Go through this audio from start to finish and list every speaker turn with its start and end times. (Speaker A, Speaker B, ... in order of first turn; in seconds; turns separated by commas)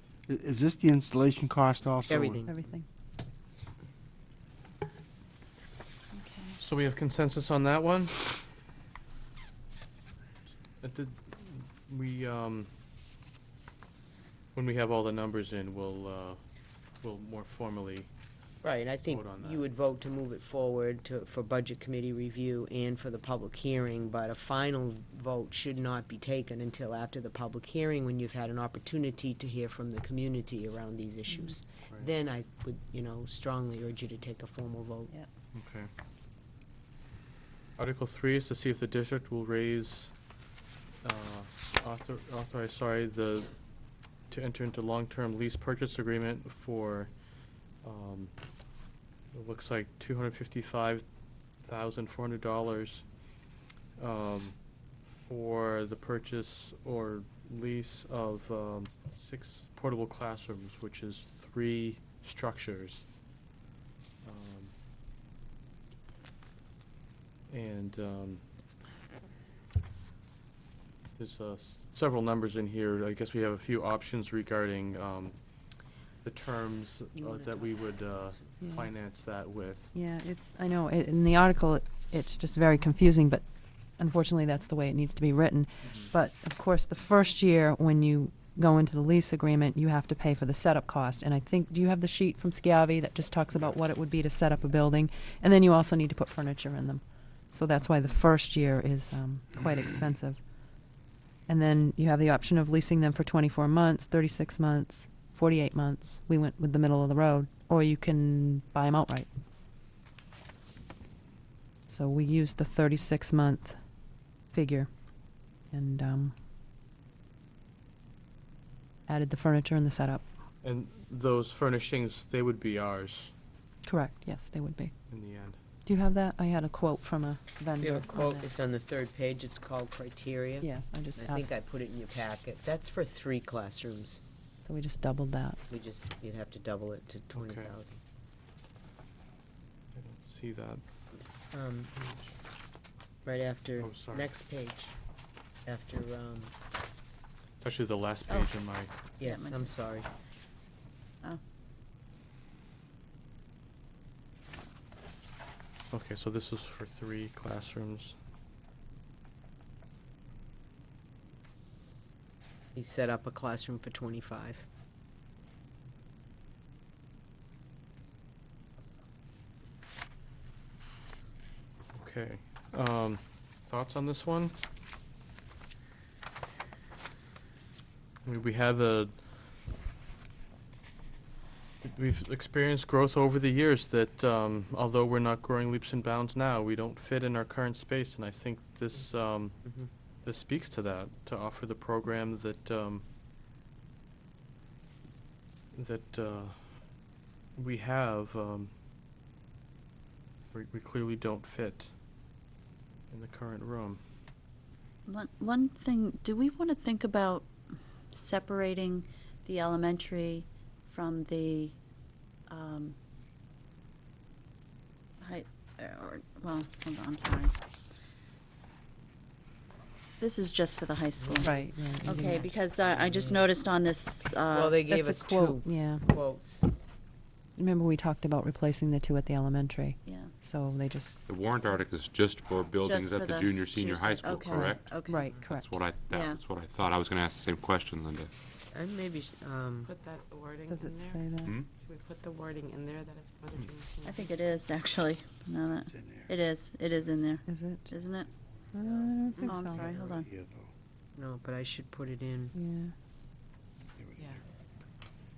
Speaker A: 0.3-2.5, Speaker B: 2.1-2.7, Speaker C: 2.5-2.9, Speaker D: 6.1-6.6, Speaker E: 6.6-8.3, Speaker E: 10.8-12.7, Speaker E: 14.6-16.4, Speaker E: 17.0-18.1, Speaker B: 18.6-35.1, Speaker E: 19.0-19.6, Speaker D: 31.3-31.6, Speaker E: 35.5-35.9, Speaker E: 37.8-40.1, Speaker E: 41.0-43.6, Speaker E: 44.3-47.1, Speaker E: 47.8-48.3, Speaker E: 49.3-51.0, Speaker E: 51.6-53.1, Speaker E: 54.0-54.6, Speaker E: 55.1-63.1, Speaker E: 64.2-64.7, Speaker E: 67.5-68.4, Speaker E: 71.2-75.4, Speaker E: 76.2-79.9, Speaker B: 77.2-78.5, Speaker C: 78.6-78.9, Speaker C: 79.9-109.3, Speaker C: 111.9-116.3, Speaker C: 119.1-120.2, Speaker E: 120.6-123.3, Speaker C: 123.8-124.9, Speaker E: 125.1-125.6, Speaker C: 125.8-128.5, Speaker B: 127.8-134.2, Speaker C: 130.6-131.6, Speaker C: 134.6-135.6, Speaker B: 135.7-138.0, Speaker E: 137.3-137.8, Speaker E: 139.9-140.8, Speaker B: 141.5-141.9, Speaker E: 141.9-142.3, Speaker B: 143.2-145.0, Speaker E: 143.8-144.3, Speaker B: 145.7-146.5, Speaker E: 147.6-148.9, Speaker B: 149.2-150.1, Speaker D: 149.2-149.7, Speaker E: 155.9-158.2, Speaker B: 162.8-164.6, Speaker E: 171.9-174.6, Speaker E: 178.2-179.2, Speaker E: 181.8-193.0, Speaker B: 189.6-189.9, Speaker E: 195.7-196.9, Speaker E: 197.6-198.7, Speaker E: 200.5-201.9, Speaker E: 203.1-204.0, Speaker D: 205.1-211.8, Speaker D: 212.5-213.0, Speaker D: 215.2-217.5, Speaker D: 220.2-224.8, Speaker B: 221.2-223.4, Speaker C: 221.4-222.5, Speaker B: 224.5-226.7, Speaker C: 224.9-226.1, Speaker C: 227.6-231.2, Speaker D: 230.1-230.3, Speaker F: 231.3-238.3, Speaker D: 232.8-235.3, Speaker C: 235.1-235.7, Speaker D: 236.1-236.4, Speaker B: 238.7-239.9, Speaker G: 239.8-244.5, Speaker C: 240.7-241.7, Speaker F: 241.4-241.7, Speaker D: 244.1-248.3, Speaker A: 245.9-246.3, Speaker C: 247.4-248.0, Speaker C: 248.7-249.9, Speaker G: 248.9-249.6, Speaker D: 249.4-250.3, Speaker A: 249.7-250.7, Speaker B: 251.2-252.5, Speaker C: 252.5-252.9, Speaker A: 254.0-254.3, Speaker G: 254.2-254.4